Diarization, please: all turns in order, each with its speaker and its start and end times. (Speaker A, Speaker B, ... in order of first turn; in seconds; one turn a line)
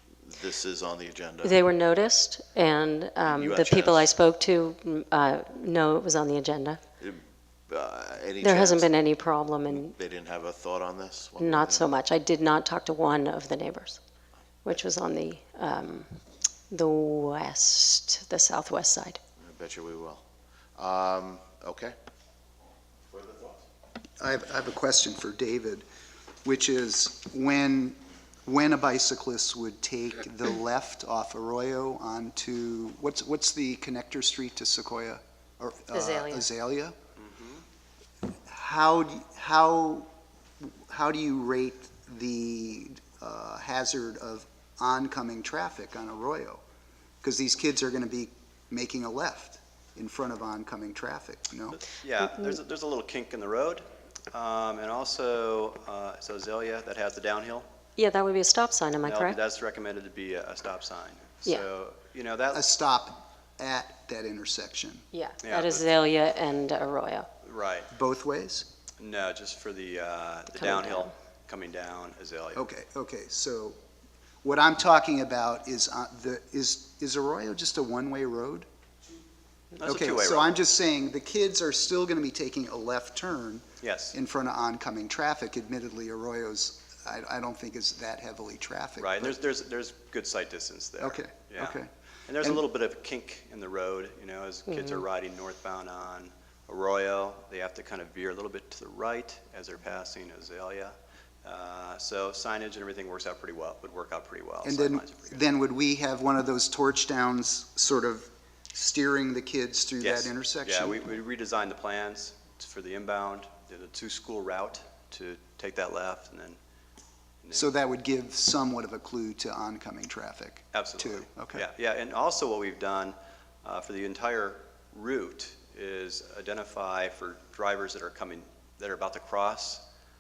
Speaker A: 0.2-1.6
Speaker B: 1.4-6.8
Speaker A: 3.2-4.1
Speaker A: 7.0-8.9
Speaker B: 8.4-9.9
Speaker A: 9.7-11.9
Speaker B: 11.4-14.0
Speaker B: 14.7-19.2
Speaker A: 19.4-20.2
Speaker A: 20.8-21.9
Speaker A: 23.1-23.7
Speaker C: 24.2-25.9
Speaker C: 26.4-37.0
Speaker B: 35.9-36.5
Speaker C: 38.5-40.1
Speaker C: 40.6-46.6
Speaker C: 47.2-51.8
Speaker D: 51.7-57.7
Speaker B: 58.0-59.4
Speaker D: 59.0-62.7
Speaker C: 62.5-65.0
Speaker B: 65.1-67.3
Speaker D: 65.4-65.8
Speaker D: 67.4-67.9
Speaker C: 67.9-68.7
Speaker D: 69.0-72.7
Speaker B: 70.5-71.1
Speaker C: 72.5-73.8
Speaker C: 74.4-78.7
Speaker D: 79.8-80.5
Speaker C: 79.8-89.4
Speaker D: 83.8-84.2
Speaker D: 89.0-105.4
Speaker C: 91.0-91.9
Speaker B: 94.7-95.0
Speaker C: 104.6-111.0
Speaker D: 110.0-116.6
Speaker D: 117.4-117.7
Speaker C: 117.5-121.7
Speaker D: 120.7-129.8